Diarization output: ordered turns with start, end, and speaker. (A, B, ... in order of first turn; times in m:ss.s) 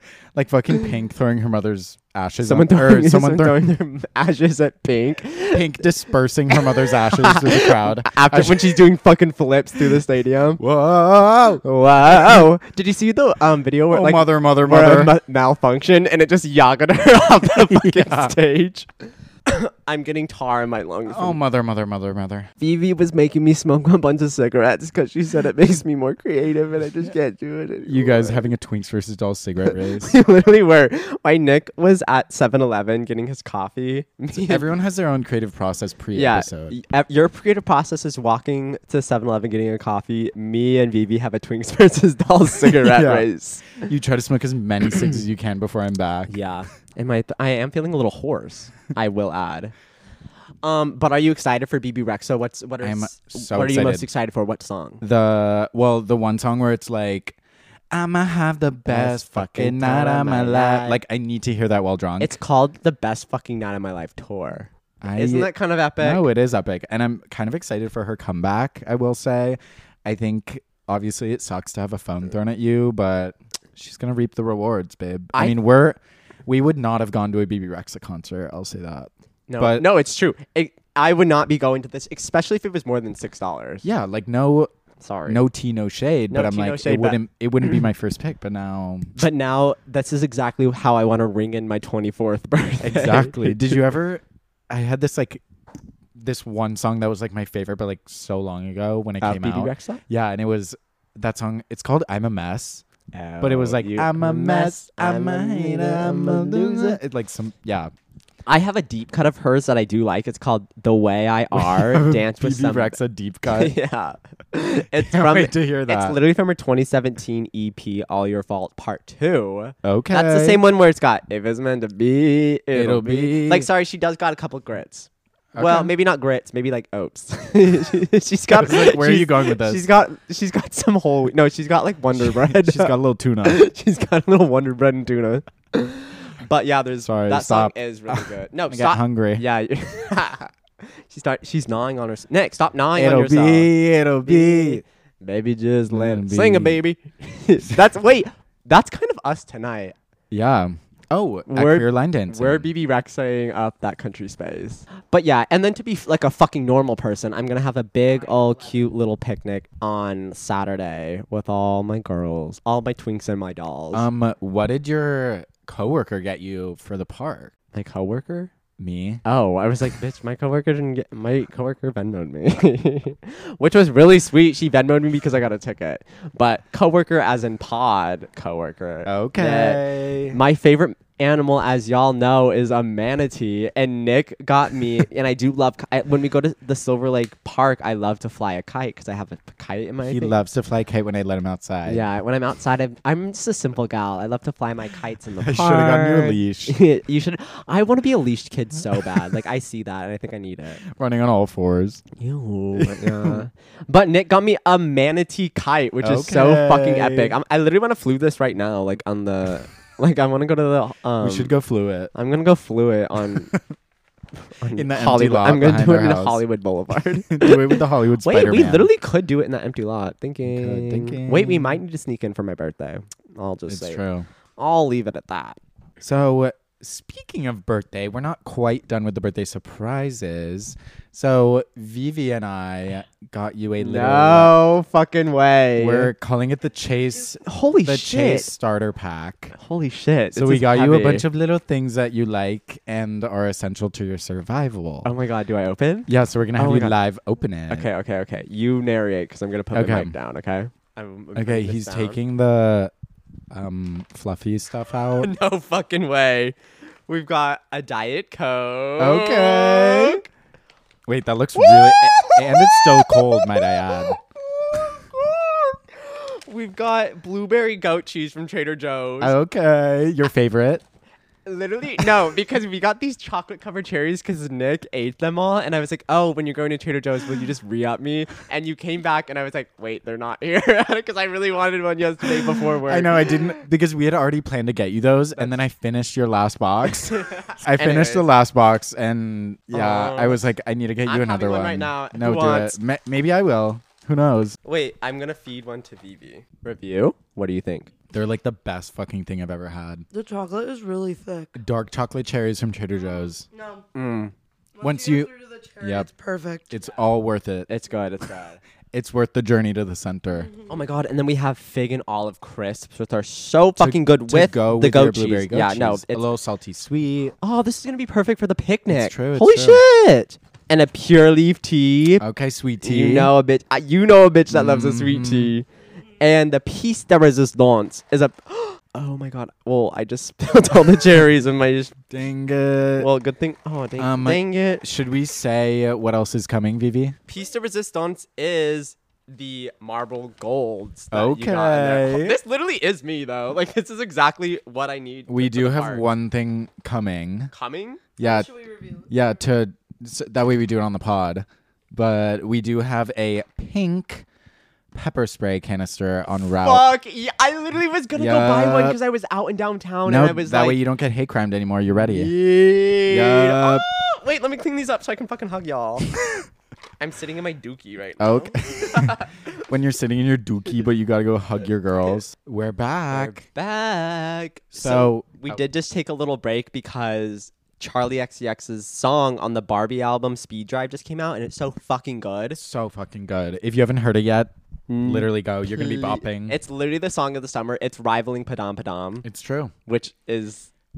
0:00.3-0:03.7 A
0:02.4-0:05.8 B
0:05.5-0:08.8 A
0:06.5-0:10.6 B
0:10.6-0:11.6 A
0:11.6-0:21.4 B
0:12.2-0:12.4 A
0:13.9-0:15.1 A
0:17.6-0:18.3 A
0:21.1-0:22.5 A
0:22.6-0:28.5 B
0:27.8-0:30.1 A
0:29.7-0:34.7 B
0:34.3-0:36.7 A
0:36.1-0:43.8 B
0:42.6-0:46.3 A
0:46.3-0:49.7 B
0:50.6-0:55.0 B
0:52.8-0:54.1 A
0:55.0-0:57.4 A
0:57.9-1:02.4 A
0:58.8-1:01.0 B
1:02.2-1:06.3 B
1:05.0-1:19.8 A
1:15.3-1:15.6 B
1:19.5-1:23.8 B
1:23.8-1:24.7 A
1:25.0-1:25.4 B
1:25.3-1:29.2 A
1:26.3-1:27.2 B
1:29.2-1:33.8 B
1:32.8-1:35.4 A
1:36.1-1:42.8 A
1:39.2-1:40.0 B
1:43.1-1:47.0 B
1:43.4-1:47.9 A
1:48.4-2:23.7 B
1:51.5-1:53.7 A
1:55.0-1:56.2 A
1:59.8-2:00.6 A
2:02.7-2:03.7 A
2:05.5-2:05.9 A
2:08.5-2:09.9 A
2:12.2-2:13.6 A
2:17.0-2:19.4 A
2:22.9-2:24.8 A
2:24.2-2:29.9 B
2:25.9-2:26.8 A
2:30.3-2:32.7 A
2:31.5-2:44.1 B
2:43.9-2:47.5 A
2:47.7-2:48.5 B
2:48.8-2:49.2 A
2:49.2-3:10.4 B
2:59.0-3:00.4 A
3:10.0-3:12.0 A
3:11.8-3:20.8 B
3:15.4-3:16.8 A
3:20.8-3:22.0 A
3:22.2-3:31.5 B
3:22.8-3:23.4 A
3:26.0-3:27.3 A
3:31.2-3:32.1 A
3:32.1-3:33.5 B
3:34.6-3:44.0 B
3:34.7-3:36.4 A
3:37.3-3:38.9 A
3:40.4-3:41.8 A
3:43.7-3:44.3 A
3:44.6-3:45.6 B
3:46.0-3:54.6 A
3:53.8-3:56.1 B
3:55.8-3:59.5 A
3:57.4-3:58.5 B
3:59.5-4:01.2 B
4:00.3-4:05.1 A
4:05.0-4:07.0 B
4:06.0-4:07.9 A
4:07.7-4:12.2 B
4:09.7-4:10.1 A
4:11.3-4:12.9 A
4:13.5-4:15.3 A
4:15.2-4:16.6 B
4:17.1-4:20.2 B
4:19.0-4:20.2 A
4:21.1-4:24.2 A
4:21.5-4:29.4 B
4:29.2-4:30.8 A
4:31.4-4:43.4 B
4:42.8-4:54.6 A
4:46.9-4:48.3 B
4:49.7-4:50.4 B
4:51.0-4:52.8 B
4:54.6-4:57.9 B
4:58.1-5:00.0 A
5:00.1-5:01.5 C
5:01.5-5:03.5 A
5:03.5-5:03.8 C
5:03.9-5:04.3 B
5:04.8-5:06.8 C
5:04.8-5:06.1 A
5:06.7-5:07.7 A
5:07.7-5:08.6 B
5:08.9-5:10.5 A
5:10.7-5:16.3 B
5:13.8-5:17.3 A
5:17.4-5:22.2 B
5:18.9-5:19.8 A
5:22.2-5:23.3 A
5:22.8-5:25.6 B
5:24.5-5:25.5 A
5:26.2-5:32.0 B
5:32.1-5:33.1 A
5:33.0-5:34.8 B
5:34.0-5:37.2 A
5:37.3-5:46.1 B
5:41.1-5:42.4 A
5:45.3-5:47.5 A
5:47.5-5:48.0 B
5:48.2-5:54.2 A
5:48.5-5:49.0 C
5:54.9-5:56.9 A
5:56.6-6:00.8 B
5:58.1-5:59.0 A
6:00.0-6:02.3 A
6:01.9-6:06.1 B
6:03.1-6:03.9 A
6:07.0-6:09.5 B
6:08.2-6:13.4 A
6:13.1-6:22.6 B
6:14.7-6:15.6 A
6:22.6-6:24.5 A
6:24.9-6:29.2 B
6:25.0-6:26.6 A
6:29.2-6:29.7 A
6:29.8-6:30.7 B